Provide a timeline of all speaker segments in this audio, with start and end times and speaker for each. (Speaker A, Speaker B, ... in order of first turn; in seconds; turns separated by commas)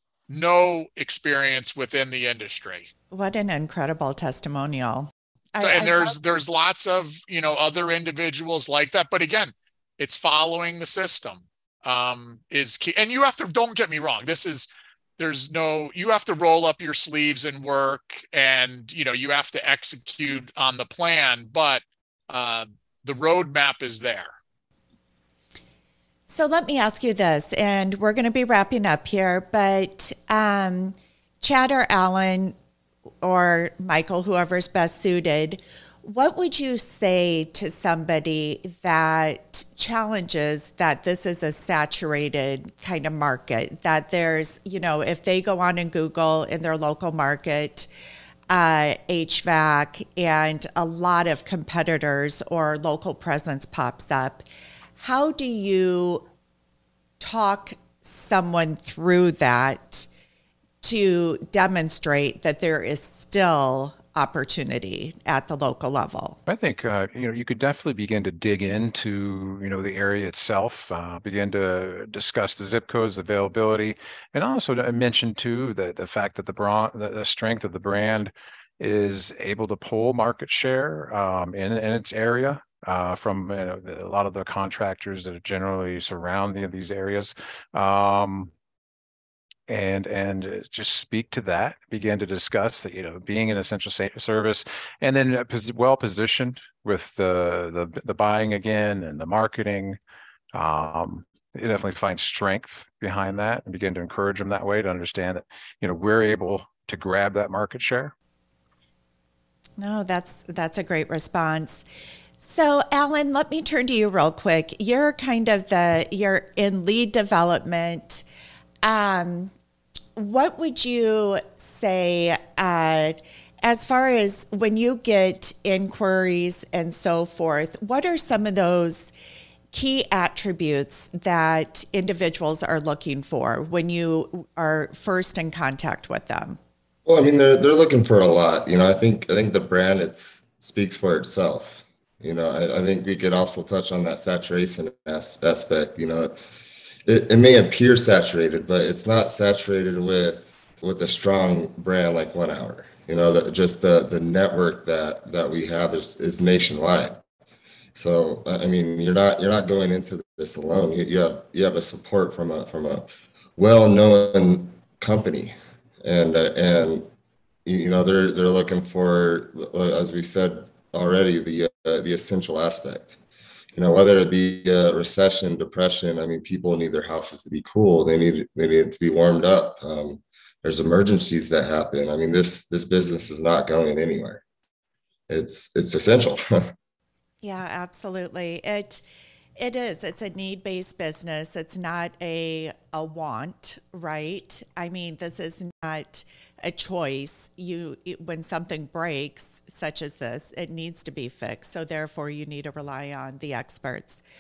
Speaker A: 0.3-2.9, Speaker B: 3.1-6.1, Speaker A: 5.6-24.4, Speaker B: 26.3-32.5, Speaker B: 33.2-47.9, Speaker B: 48.5-54.4, Speaker B: 55.0-56.3, Speaker B: 57.2-60.1, Speaker B: 60.8-66.4, Speaker C: 66.5-88.5, Speaker C: 89.7-100.0, Speaker C: 100.5-108.1, Speaker B: 109.8-111.8, Speaker B: 112.4-118.2, Speaker B: 118.8-119.5, Speaker B: 120.2-129.1, Speaker B: 129.7-136.6, Speaker D: 137.1-146.3, Speaker D: 147.1-157.2, Speaker D: 157.9-167.1, Speaker D: 167.7-173.2, Speaker D: 173.8-184.4, Speaker D: 185.3-186.7, Speaker B: 187.4-189.0, Speaker B: 189.6-204.2